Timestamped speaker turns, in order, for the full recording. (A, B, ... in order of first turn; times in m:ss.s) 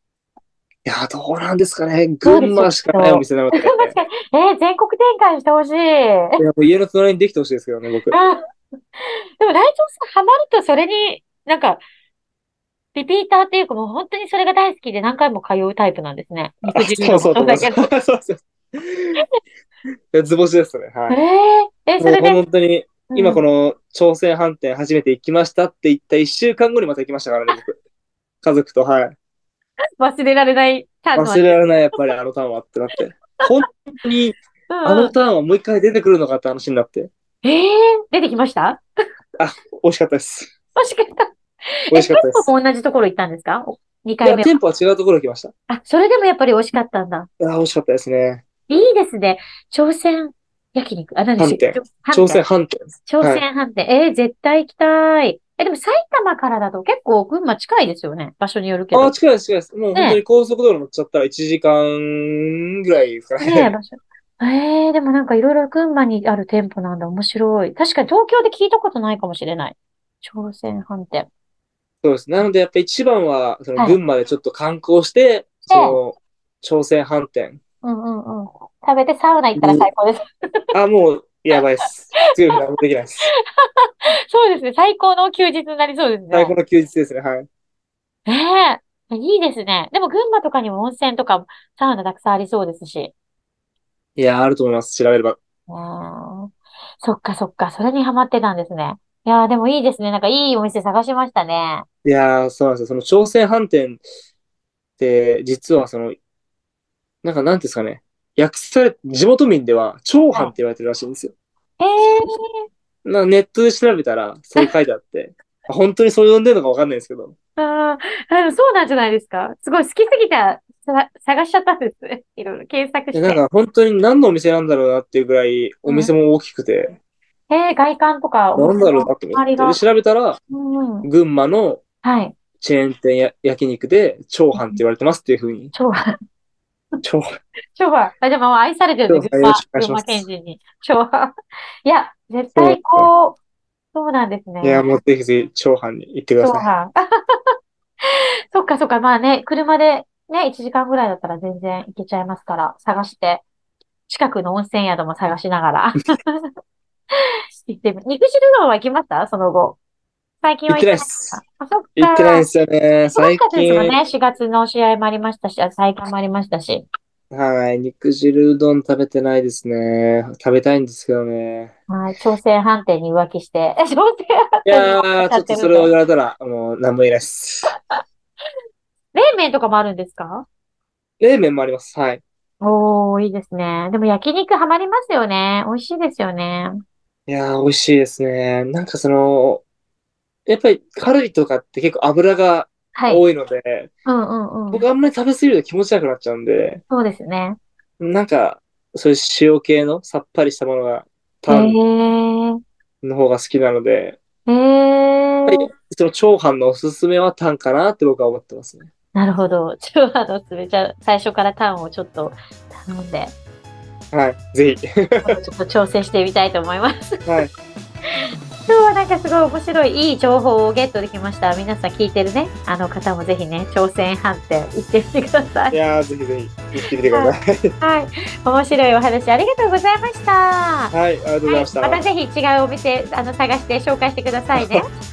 0:00.8-0:04.0 A
0:02.2-0:06.3 B
0:06.4-0:08.2 A
0:09.0-0:11.8 B
0:12.9-0:17.9 B
0:16.6-0:19.2 A
0:20.1-0:21.2 A
0:21.1-0:22.4 B
0:22.0-0:27.8 A
0:23.1-0:23.4 B
0:28.4-0:29.1 A
0:30.0-0:31.6 B
0:31.1-0:37.1 A
0:34.7-0:35.1 B
0:37.4-0:38.8 B
0:39.4-0:40.5 A
0:40.8-0:41.2 B
0:41.9-0:44.6 B
0:41.9-0:42.5 A
0:44.2-0:45.5 A
0:45.7-0:47.3 B
0:47.4-0:48.4 A
0:48.7-0:52.4 B
0:51.4-0:53.4 A
0:53.0-0:59.1 B
0:58.9-1:03.7 A
0:59.9-1:00.2 B
1:03.4-1:11.3 B
1:12.0-1:17.6 A
1:15.7-1:16.0 B
1:17.8-1:20.2 B
1:19.6-1:19.9 A
1:20.7-1:23.3 A
1:24.3-1:26.6 B
1:26.3-1:27.5 A
1:28.2-1:33.1 B
1:34.2-1:35.4 A
1:35.7-1:41.8 B
1:42.0-1:44.0 A
1:45.0-1:46.2 A
1:47.2-1:51.3 A
1:51.8-1:52.6 B
1:53.0-1:57.3 A
1:57.6-2:03.4 B
2:03.1-2:07.0 A
2:05.9-2:06.1 B
2:07.5-2:09.8 B
2:08.5-2:10.4 A
2:10.5-2:11.1 B
2:11.0-2:11.8 A
2:12.0-2:12.3 B
2:12.6-2:15.7 A
2:14.5-2:14.8 B
2:17.7-2:21.3 B
2:19.1-2:20.2 A
2:21.8-2:23.4 B
2:22.6-2:23.1 A
2:23.9-2:24.9 B
2:24.6-2:26.7 A
2:26.4-2:27.4 B
2:28.5-2:33.4 B
2:34.1-2:36.4 B
2:37.6-2:39.8 B
2:40.4-2:42.5 B
2:40.7-2:41.4 A
2:42.0-2:44.0 A
2:43.1-2:46.9 B
2:47.3-2:51.7 A
2:51.9-2:55.9 B
2:54.6-2:57.8 A
2:59.1-3:00.4 B
3:01.2-3:02.2 A
3:02.6-3:06.8 B
3:07.3-3:09.6 A
3:10.5-3:13.9 A
3:12.9-3:13.2 B
3:14.0-3:14.8 B
3:14.7-3:16.8 A
3:16.9-3:17.6 B
3:18.0-3:21.8 A
3:21.5-3:22.6 B
3:23.0-3:24.2 A
3:24.5-3:25.7 B
3:25.5-3:28.9 A
3:29.1-3:33.3 B
3:34.1-3:35.3 A
3:35.2-3:37.4 B
3:38.7-3:45.8 B
3:45.7-3:47.7 A
3:47.1-3:50.9 B
3:50.9-3:52.0 A
3:51.4-3:54.8 B
3:54.5-3:54.8 A